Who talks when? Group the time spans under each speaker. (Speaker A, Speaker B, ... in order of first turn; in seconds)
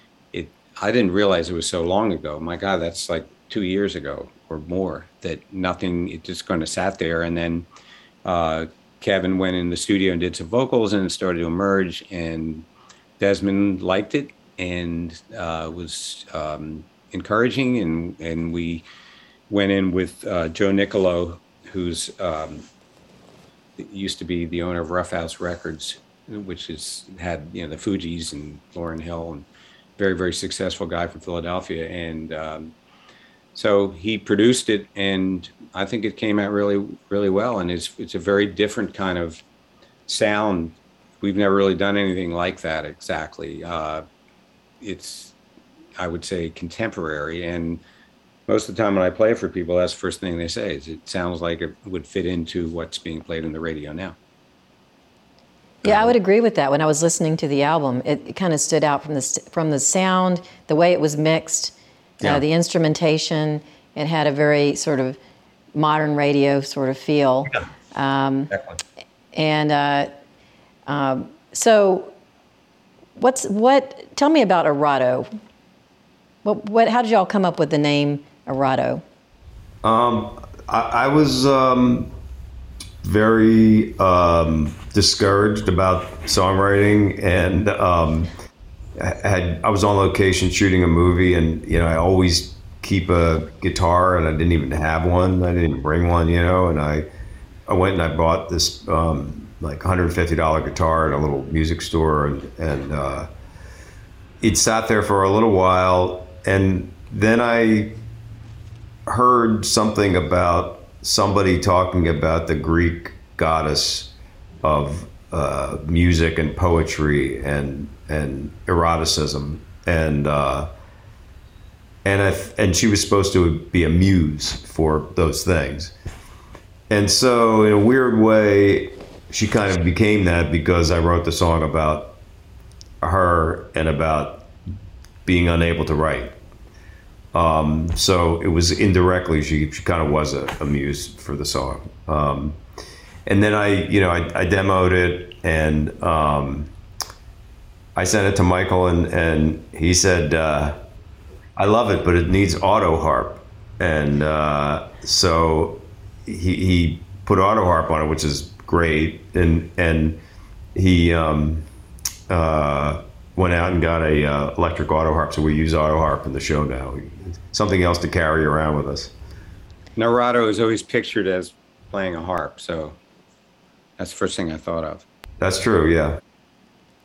Speaker A: 0.3-7.7, 8.2-12.7, 13.2-18.9, 19.5-22.7, 23.8-29.5, 30.0-32.7, 33.5-39.4, 40.1-44.0, 44.8-45.3, 46.0-47.8, 48.5-54.2, 68.5-68.8, 170.0-173.0, 174.0-175.1
Speaker B: 55.8-65.2, 65.7-68.5, 69.3-70.1, 70.9-72.1, 73.2-75.3, 76.4-79.0
Speaker C: 55.9-56.1, 79.8-82.1, 83.0-88.3, 89.0-97.1, 97.7-103.3, 104.4-108.0, 109.1-120.7, 122.0-125.9, 126.9-132.2, 133.0-134.5, 135.3-136.3, 137.3-142.6, 143.3-146.7, 147.9-150.8, 151.6-160.2, 160.8-161.7, 162.3-169.1, 175.4-176.2